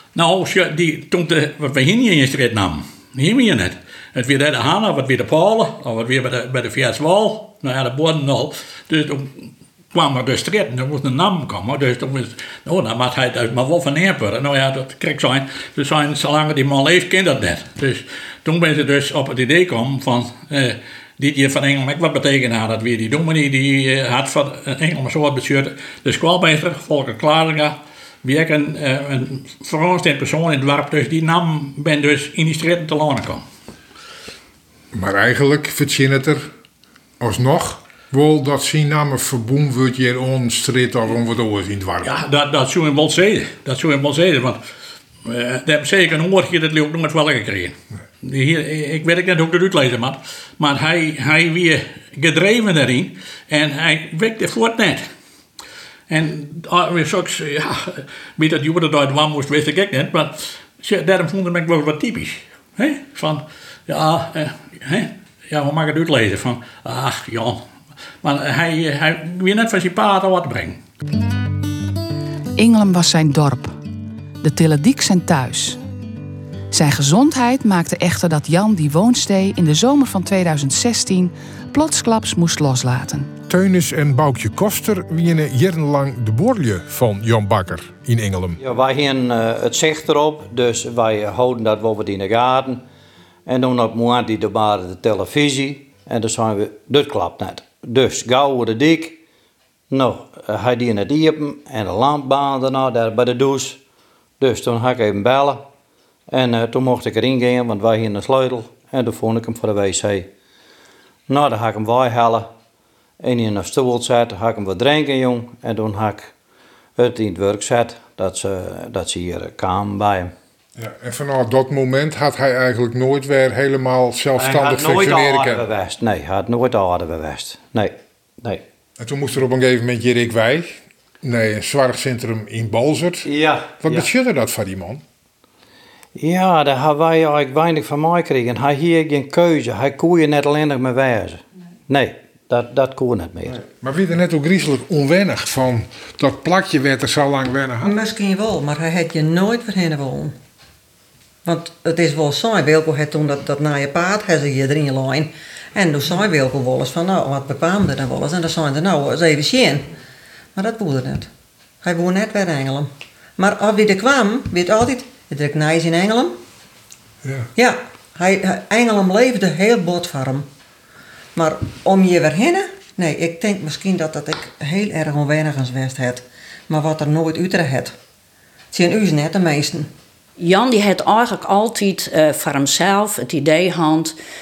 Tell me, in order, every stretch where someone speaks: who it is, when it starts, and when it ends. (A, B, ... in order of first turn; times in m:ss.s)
0:00.1-0:33.4 A
0:34.9-0:36.5 B
0:37.2-0:42.2 B
0:42.0-0:44.6 A
0:45.2-0:55.0 A
0:56.1-1:07.6 A
1:08.2-1:10.8 A
1:12.6-1:13.8 C
1:14.4-1:15.8 C
1:16.7-1:23.3 C
1:23.5-1:28.6 B
1:28.6-1:32.8 D
1:33.4-1:39.2 D
1:39.9-1:43.8 D
1:44.4-1:45.6 D
1:46.3-1:50.3 D
1:51.3-1:52.5 D
1:53.2-1:56.3 D
1:57.0-2:00.3 D
2:00.8-2:05.6 B
2:04.4-2:08.6 D
2:09.0-2:13.3 B
2:13.2-2:14.1 D
2:13.8-2:15.0 B
2:16.2-2:23.6 D
2:23.7-2:27.9 B
2:27.8-2:30.3 E
2:31.4-2:39.9 E
2:40.5-2:41.3 E
2:41.8-2:46.4 E
2:47.6-2:50.5 E
2:51.4-2:57.9 E
2:58.7-2:59.9 E
3:00.4-3:04.1 F